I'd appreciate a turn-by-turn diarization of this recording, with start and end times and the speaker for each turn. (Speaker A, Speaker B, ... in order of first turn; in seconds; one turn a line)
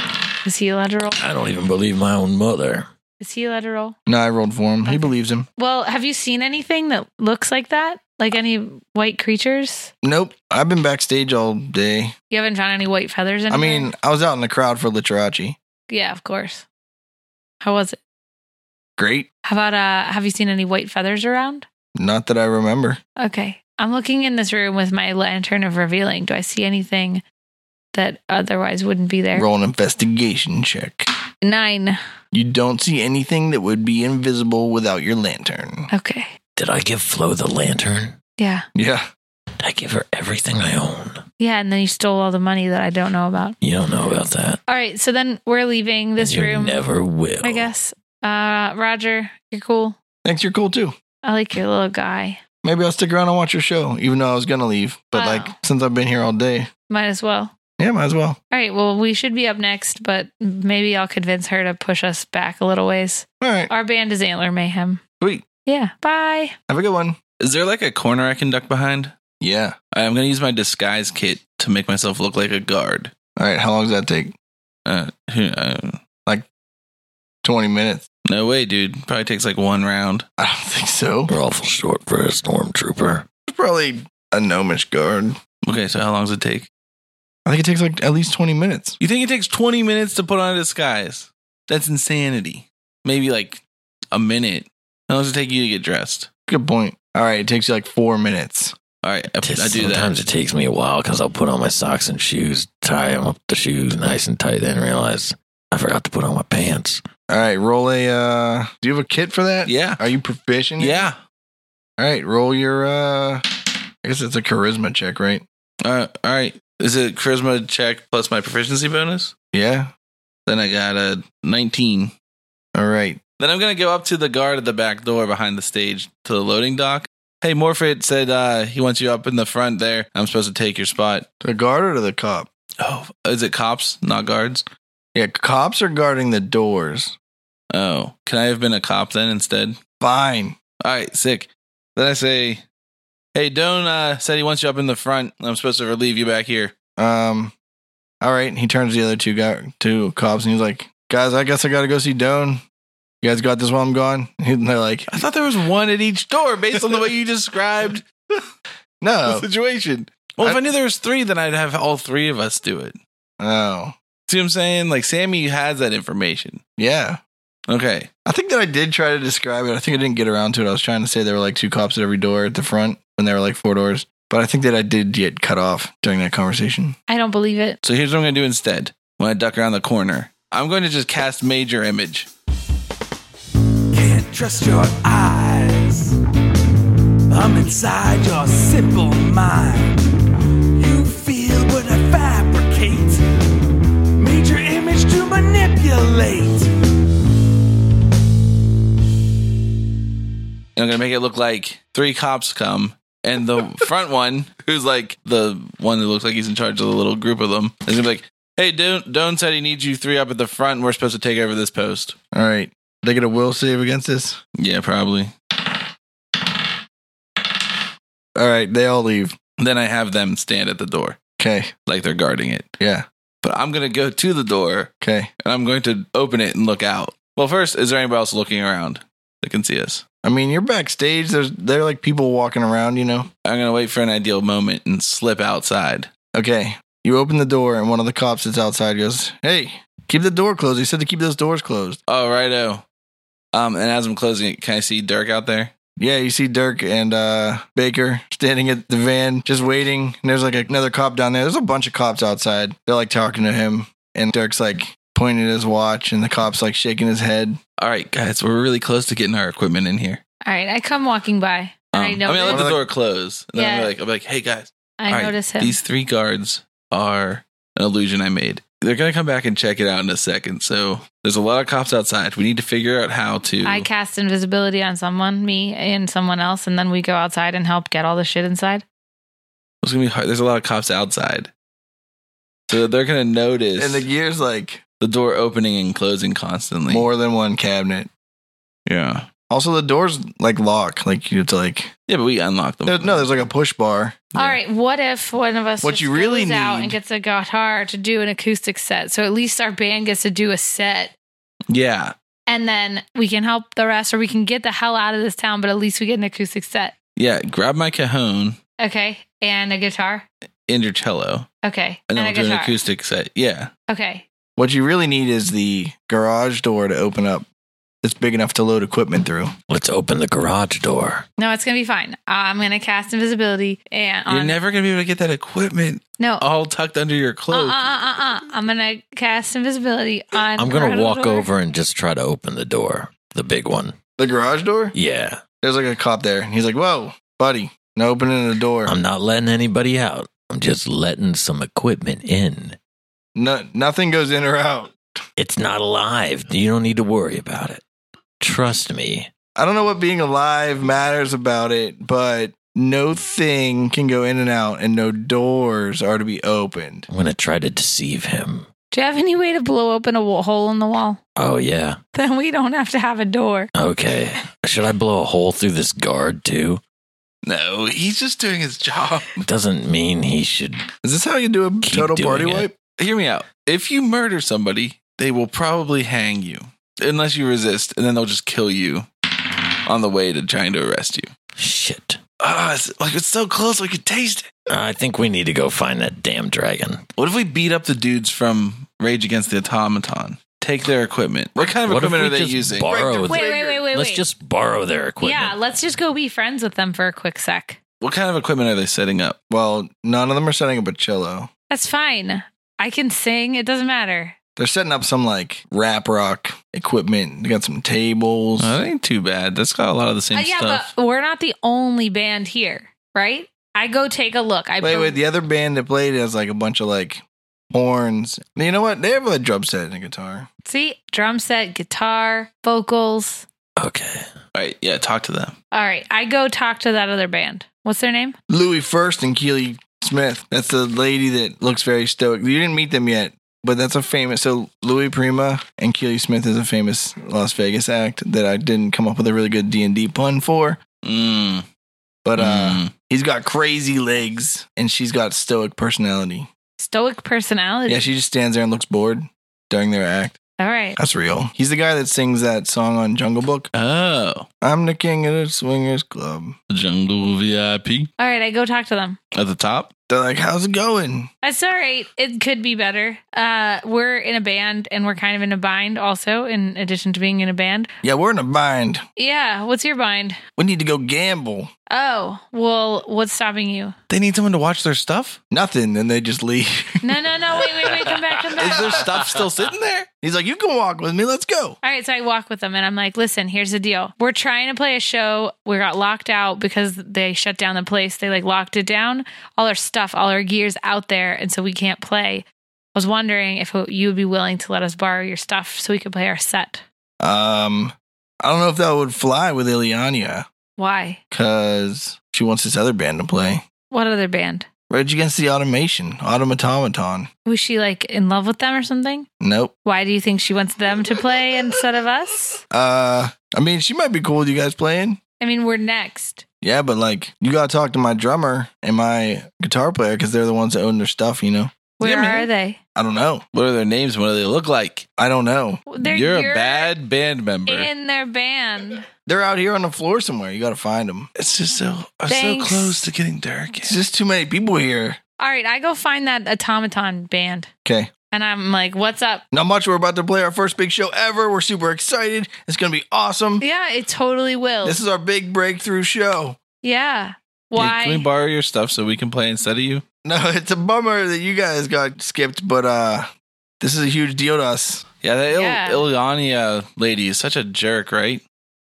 Speaker A: 0.4-1.2
Speaker B: 1.2-2.9
Speaker A: 3.2-4.0
Speaker C: 4.1-5.5
Speaker A: 4.9-9.9
Speaker C: 10.0-12.1
Speaker A: 12.3-13.9
Speaker C: 13.5-15.6
Speaker A: 15.9-16.6
Speaker A: 17.6-18.0
Speaker C: 19.0-19.3
Speaker A: 19.4-21.7
Speaker C: 22.0-23.0
Speaker A: 23.2-27.2
Speaker A: 27.9-29.5
Speaker C: 29.4-31.1
Speaker A: 31.4-32.0
Speaker C: 32.3-35.9
Speaker A: 35.9-36.3
Speaker B: 36.6-38.2
Speaker A: 38.4-38.7
Speaker C: 38.8-39.1
Speaker B: 39.6-41.2
Speaker A: 41.4-43.6
Speaker B: 43.6-44.6
Speaker A: 44.7-46.8
Speaker B: 46.2-47.7
Speaker A: 47.4-50.0
Speaker C: 50.2-51.0
Speaker A: 51.2-52.4
Speaker C: 52.6-56.7
Speaker A: 55.1-55.5
Speaker A: 56.9-57.5
Speaker C: 57.8-58.4
Speaker A: 58.5-65.0
Speaker C: 63.4-63.7
Speaker A: 65.7-66.5
Speaker C: 66.7-67.2
Speaker D: 67.4-69.1
Speaker C: 69.4-69.8
Speaker D: 69.9-73.1
Speaker C: 73.4-74.3
Speaker D: 74.9-76.0
Speaker C: 77.4-78.0
Speaker D: 78.3-80.2
Speaker C: 80.4-81.3
Speaker B: 81.3-83.3
Speaker C: 83.5-85.4
Speaker D: 85.6-86.7
Speaker C: 87.5-89.0
Speaker D: 89.0-96.3
Speaker C: 96.5-98.8
Speaker D: 99.0-100.2
Speaker B: 99.4-107.0
Speaker C: 107.3-111.1
Speaker D: 109.7-110.0
Speaker D: 110.8-111.2
Speaker C: 112.0-113.4
Speaker C: 114.0-115.4
Speaker D: 115.8-119.3
Speaker C: 119.5-119.9
Speaker D: 120.5-122.1
Speaker C: 122.7-123.2
Speaker D: 123.4-131.3
Speaker C: 131.4-132.5
Speaker D: 132.8-134.7
Speaker C: 135.2-137.2
Speaker D: 137.7-139.8
Speaker C: 140.0-140.6
Speaker D: 140.8-142.6
Speaker D: 143.3-146.7
Speaker C: 147.0-147.5
Speaker C: 148.2-152.6
Speaker C: 153.2-155.1
Speaker D: 155.1-158.1
Speaker C: 159.0-159.5
Speaker D: 159.2-163.0
Speaker C: 163.4-164.0
Speaker D: 164.3-166.6
Speaker C: 166.8-167.2
Speaker D: 167.7-168.1
Speaker C: 168.2-177.0
Speaker A: 177.1-177.8
Speaker D: 177.8-182.3
Speaker E: 183.9-186.1
Speaker E: 187.3-190.1
Speaker E: 190.7-193.2
Speaker E: 194.2-196.7
Speaker D: 200.8-212.2
Speaker C: 212.3-214.4
Speaker D: 214.6-215.3
Speaker C: 218.3-219.4
Speaker D: 219.6-221.2
Speaker C: 221.4-221.7
Speaker D: 221.9-222.7
Speaker C: 222.8-223.1
Speaker D: 223.4-224.9
Speaker C: 225.0-225.3
Speaker D: 225.4-230.0
Speaker C: 230.2-233.3
Speaker D: 233.4-236.1
Speaker C: 236.3-242.0
Speaker D: 242.1-242.8
Speaker D: 243.5-245.7
Speaker C: 246.0-257.6
Speaker D: 257.8-260.2
Speaker A: 260.4-262.6
Speaker D: 261.9-273.9
Speaker C: 262.5-262.8
Speaker A: 263.6-263.9
Speaker A: 265.0-265.8
Speaker A: 273.6-278.8
Speaker D: 279.8-281.5
Speaker D: 282.7-284.1
Speaker C: 283.8-284.8
Speaker D: 285.0-287.1
Speaker C: 286.9-288.1
Speaker D: 288.9-289.3
Speaker C: 289.5-291.9
Speaker D: 292.1-293.4
Speaker C: 292.9-294.3
Speaker D: 294.3-294.6
Speaker A: 294.4-301.1
Speaker C: 295.8-297.0
Speaker D: 301.7-302.1
Speaker A: 302.5-306.9
Speaker D: 307.2-308.6
Speaker A: 308.8-310.3
Speaker D: 310.7-311.5
Speaker A: 311.6-312.8
Speaker D: 312.1-313.7
Speaker A: 313.9-314.2
Speaker C: 314.6-317.5
Speaker C: 318.0-319.5
Speaker B: 319.7-321.2
Speaker A: 321.4-324.6
Speaker D: 324.3-327.8
Speaker A: 326.2-326.5
Speaker A: 327.5-331.5
Speaker B: 330.6-334.0
Speaker C: 334.2-334.9
Speaker B: 334.9-335.4
Speaker C: 335.6-338.9
Speaker B: 338.9-342.8
Speaker C: 343.4-345.0
Speaker B: 345.4-347.8
Speaker B: 348.4-349.3
Speaker C: 349.6-357.1
Speaker B: 357.1-358.7
Speaker A: 358.9-361.2
Speaker B: 361.4-362.0
Speaker A: 362.1-363.7
Speaker B: 363.8-366.8
Speaker D: 367.4-369.4
Speaker B: 369.4-370.9
Speaker C: 371.0-372.8
Speaker B: 371.8-372.7
Speaker D: 373.0-379.1
Speaker D: 379.9-381.3
Speaker B: 381.6-382.2
Speaker D: 382.4-384.5
Speaker B: 384.7-387.0
Speaker D: 387.2-393.0
Speaker B: 391.9-395.5
Speaker C: 392.8-393.9
Speaker A: 393.2-394.2
Speaker A: 395.2-397.8
Speaker D: 398.0-399.4
Speaker C: 399.5-401.5
Speaker A: 401.7-404.4
Speaker C: 404.6-408.8
Speaker D: 408.6-410.9
Speaker A: 410.3-415.2
Speaker C: 414.8-420.5
Speaker A: 420.6-423.5
Speaker B: 423.8-424.3
Speaker D: 424.5-425.5
Speaker A: 425.7-428.4
Speaker C: 428.5-440.8
Speaker D: 441.0-441.7
Speaker C: 442.2-446.5
Speaker D: 442.4-442.9
Speaker A: 446.8-448.1
Speaker C: 447.9-450.4
Speaker A: 450.6-451.0
Speaker C: 451.0-453.7
Speaker D: 453.7-454.5
Speaker C: 454.6-456.6
Speaker D: 456.7-458.1
Speaker A: 458.2-459.2
Speaker D: 459.3-459.9
Speaker C: 460.1-461.3
Speaker A: 461.4-467.9
Speaker C: 468.0-469.0
Speaker A: 469.2-470.4
Speaker C: 470.6-471.7
Speaker A: 471.9-474.0
Speaker D: 474.1-475.4
Speaker C: 475.5-477.2
Speaker A: 477.0-479.1
Speaker D: 478.6-480.1
Speaker C: 478.6-479.2
Speaker C: 480.2-481.8
Speaker A: 481.8-496.8
Speaker C: 497.2-500.5
Speaker A: 500.8-501.2
Speaker C: 501.3-503.6
Speaker A: 503.9-504.7
Speaker C: 504.9-507.3
Speaker A: 507.4-509.3
Speaker C: 509.4-509.7
Speaker A: 509.9-512.6
Speaker C: 512.7-515.2
Speaker A: 515.4-516.4
Speaker C: 516.6-523.4
Speaker A: 522.0-522.8
Speaker D: 523.5-525.0
Speaker C: 525.2-525.8
Speaker A: 525.9-526.9
Speaker D: 526.0-527.9
Speaker A: 527.7-529.1
Speaker C: 529.3-531.3
Speaker D: 531.4-534.0
Speaker A: 532.3-533.0
Speaker C: 533.8-535.2
Speaker A: 535.4-537.7
Speaker C: 537.9-538.1
Speaker A: 538.3-539.4
Speaker C: 539.5-543.6
Speaker A: 543.6-545.0
Speaker C: 544.8-546.6
Speaker A: 546.8-548.2
Speaker D: 547.8-550.0
Speaker C: 550.2-553.3
Speaker C: 553.8-555.0
Speaker D: 555.2-558.4
Speaker A: 555.5-556.1